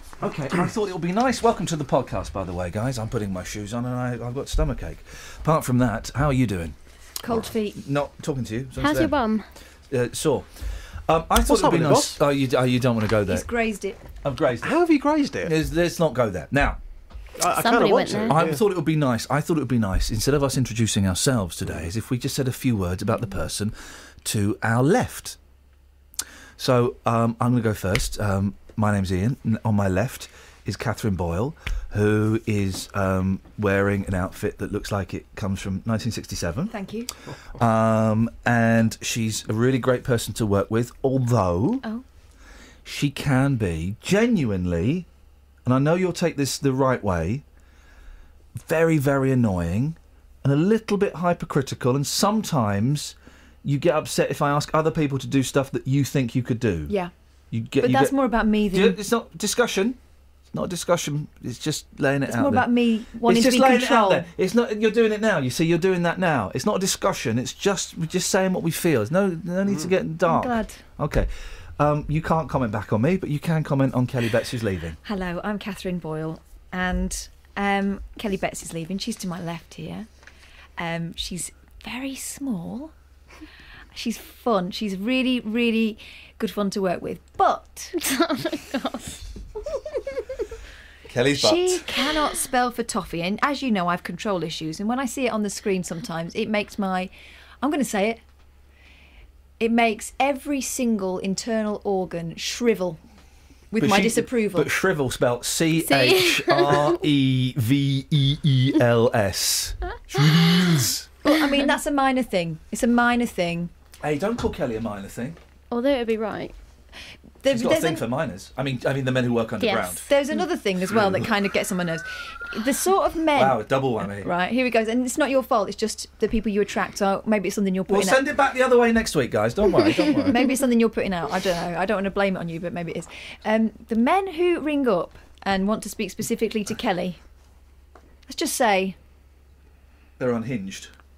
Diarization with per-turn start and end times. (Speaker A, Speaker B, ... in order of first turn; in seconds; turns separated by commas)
Speaker A: 0.2-9.2, Speaker B: 7.2-7.8, Speaker C: 8.8-9.4, Speaker A: 9.9-13.5, Speaker D: 11.5-12.2, Speaker B: 13.3-14.0, Speaker A: 14.2-14.8, Speaker D: 14.6-15.5, Speaker A: 15.4-16.8, Speaker D: 17.4-18.6, Speaker C: 17.5-18.4, Speaker A: 18.3-25.4, Speaker A: 26.6-36.7, Speaker B: 36.7-37.1, Speaker A: 37.6-41.8, Speaker A: 42.8-45.1, Speaker A: 45.6-47.4, Speaker A: 48.5-57.0, Speaker B: 56.9-57.1, Speaker A: 57.5-58.2, Speaker B: 57.8-59.0, Speaker A: 58.7-60.0, Speaker A: 60.5-62.7, Speaker B: 62.2-64.3, Speaker A: 63.2-75.0, Speaker D: 69.7-69.9, Speaker B: 70.3-70.8, Speaker B: 75.0-80.2, Speaker B: 80.8-82.9, Speaker B: 83.9-87.9, Speaker C: 88.0-89.2, Speaker A: 91.1-91.8, Speaker B: 91.3-98.2, Speaker B: 99.6-103.0, Speaker B: 103.7-104.7, Speaker A: 103.8-111.0, Speaker C: 105.9-107.0, Speaker C: 110.2-110.7, Speaker B: 111.2-113.7, Speaker A: 114.0-115.4, Speaker C: 115.7-116.5, Speaker B: 117.4-118.0, Speaker A: 117.5-120.0, Speaker C: 119.6-120.1, Speaker B: 120.1-128.2, Speaker A: 123.3-124.3, Speaker A: 127.9-130.3, Speaker B: 130.3-137.3, Speaker B: 138.3-139.0, Speaker A: 140.2-140.9